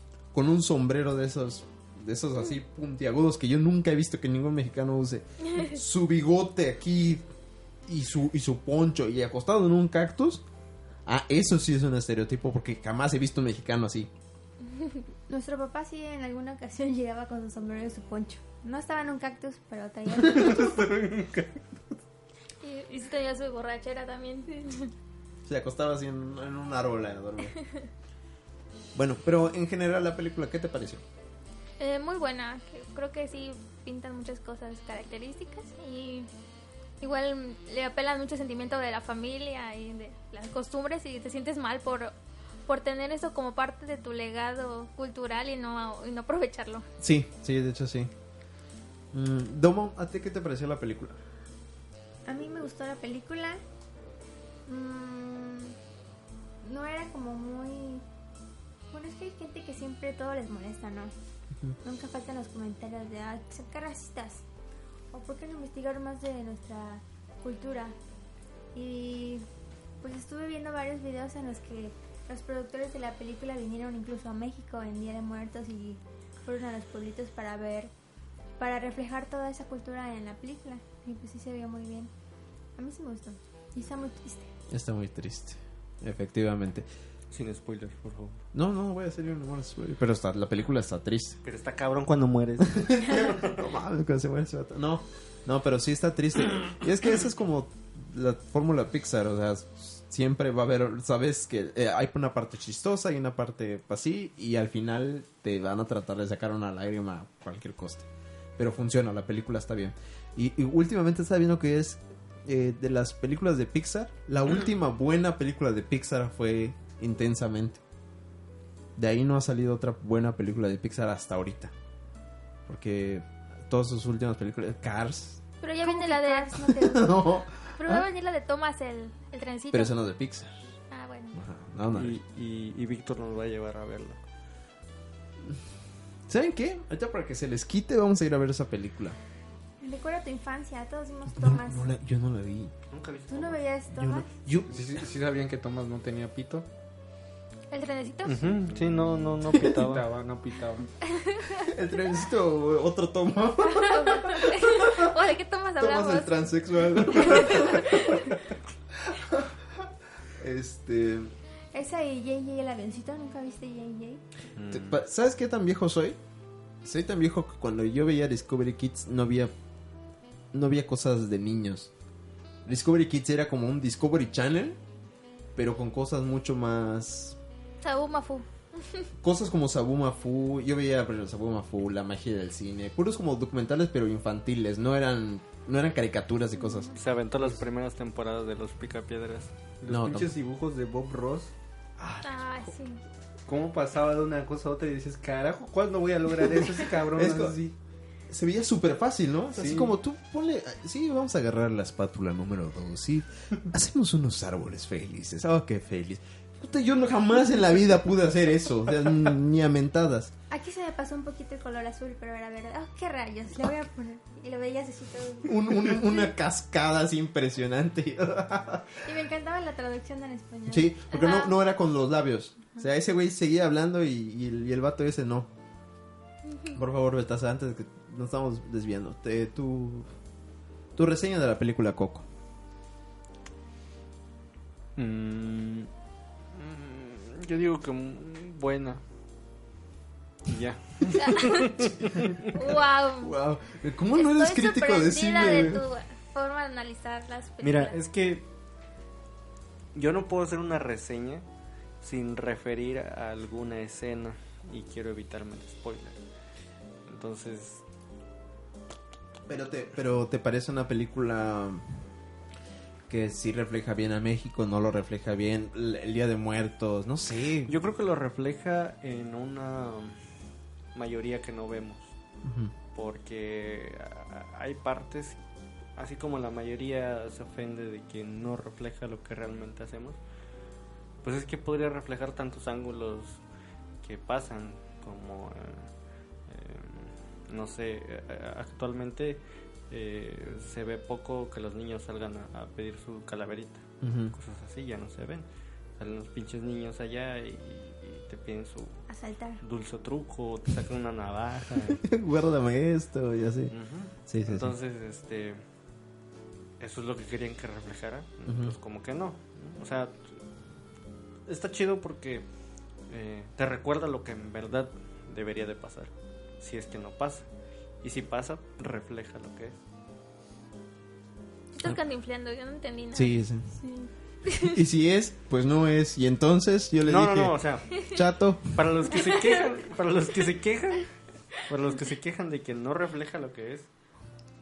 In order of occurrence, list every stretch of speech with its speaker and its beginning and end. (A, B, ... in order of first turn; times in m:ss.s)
0:00.3-0:07.2 A
0:07.9-0:10.4 A
0:11.0-0:14.1 A
0:15.3-0:20.7 B
0:20.2-0:21.6 C
0:22.6-0:24.9 D
0:25.4-0:27.6 A
0:28.9-0:31.0 A
0:31.8-0:36.3 D
0:37.0-0:42.1 D
0:42.7-0:46.8 D
0:47.0-0:48.1 A
0:49.1-0:51.2 A
0:52.2-0:53.6 B
0:54.7-0:55.8 B
0:56.6-0:58.0 B
0:58.9-1:01.1 B
1:01.8-1:04.4 B
1:05.1-1:08.0 B
1:08.7-1:09.4 B
1:10.0-1:17.9 B
1:18.6-1:22.1 B
1:22.8-1:24.5 B
1:24.7-1:26.8 A
1:27.3-1:28.4 E
1:28.5-1:31.4 A
1:31.4-1:33.5 E
1:32.7-1:48.0 A
1:48.6-1:57.8 A
1:59.0-2:01.7 A
2:02.6-2:05.4 A
2:05.6-2:09.9 D
2:05.8-2:07.1 B
2:06.6-2:08.1 A
2:09.7-2:10.5 A
2:10.9-2:11.4 D
2:11.3-2:12.2 A
2:11.9-2:14.2 E
2:16.3-2:19.2 A
2:19.8-2:21.9 B
2:21.3-2:22.7 A
2:22.9-2:23.6 E
2:23.3-2:24.3 B
2:23.9-2:25.0 A
2:24.6-2:26.7 C
2:27.7-2:28.6 D
2:28.2-2:30.1 E
2:29.5-2:30.9 C
2:31.0-2:31.7 D
2:31.6-2:35.1 A
2:33.7-2:36.4 D
2:35.8-2:38.4 A
2:37.0-2:38.4 D
2:39.0-2:39.4 A
2:40.4-2:41.3 A
2:41.7-2:44.2 B
2:44.6-2:45.0 E
2:44.7-2:46.2 A
2:46.8-2:49.5 A
2:50.5-2:51.9 A
2:52.6-2:54.8 A
2:55.5-2:57.4 A
2:57.8-2:59.1 D
2:59.2-3:06.9 A
3:06.9-3:09.5 E
3:09.8-3:11.5 C
3:09.9-3:10.3 A
3:12.0-3:12.7 A
3:12.2-3:13.0 D
3:13.4-3:17.7 C
3:17.0-3:17.7 A
3:18.3-3:30.3 A
3:19.5-3:19.9 C
3:30.5-3:36.1 B
3:35.4-3:39.0 A
3:39.0-3:41.0 B
3:40.7-3:45.5 A
3:41.1-3:41.5 D
3:46.7-3:50.1 A
3:51.0-3:52.2 A
3:55.0-3:55.9 E
3:56.5-3:59.0 E
4:00.5-4:02.5 E
4:01.0-4:01.9 D
4:02.5-4:03.3 D
4:03.2-4:05.8 A
4:04.1-4:08.0 D
4:07.6-4:08.4 E
4:09.9-4:11.4 E
4:12.0-4:16.2 E
4:17.0-4:17.8 E
4:19.5-4:21.8 A
4:23.1-4:27.7 A
4:27.7-4:30.2 E
4:30.9-4:32.1 E
4:32.4-4:32.7 A
4:32.9-4:35.4 E
4:36.0-4:40.2 E
4:41.2-4:43.4 E
4:44.0-4:45.9 E
4:46.5-4:55.4 E
4:54.0-4:54.3 A
4:56.0-4:59.0 E
4:59.1-4:59.6 B
4:59.6-5:02.0 E
5:02.0-5:03.7 A
5:03.7-5:05.6 E
5:04.3-5:04.7 A
5:06.8-5:10.4 E
5:08.4-5:08.8 A
5:11.5-5:12.4 E
5:13.1-5:17.4 E
5:18.0-5:19.8 E
5:21.7-5:23.4 D
5:23.1-5:23.7 A
5:23.8-5:24.1 B
5:24.4-5:24.8 D
5:24.5-5:28.8 A
5:27.0-5:31.1 E
5:31.6-5:33.9 E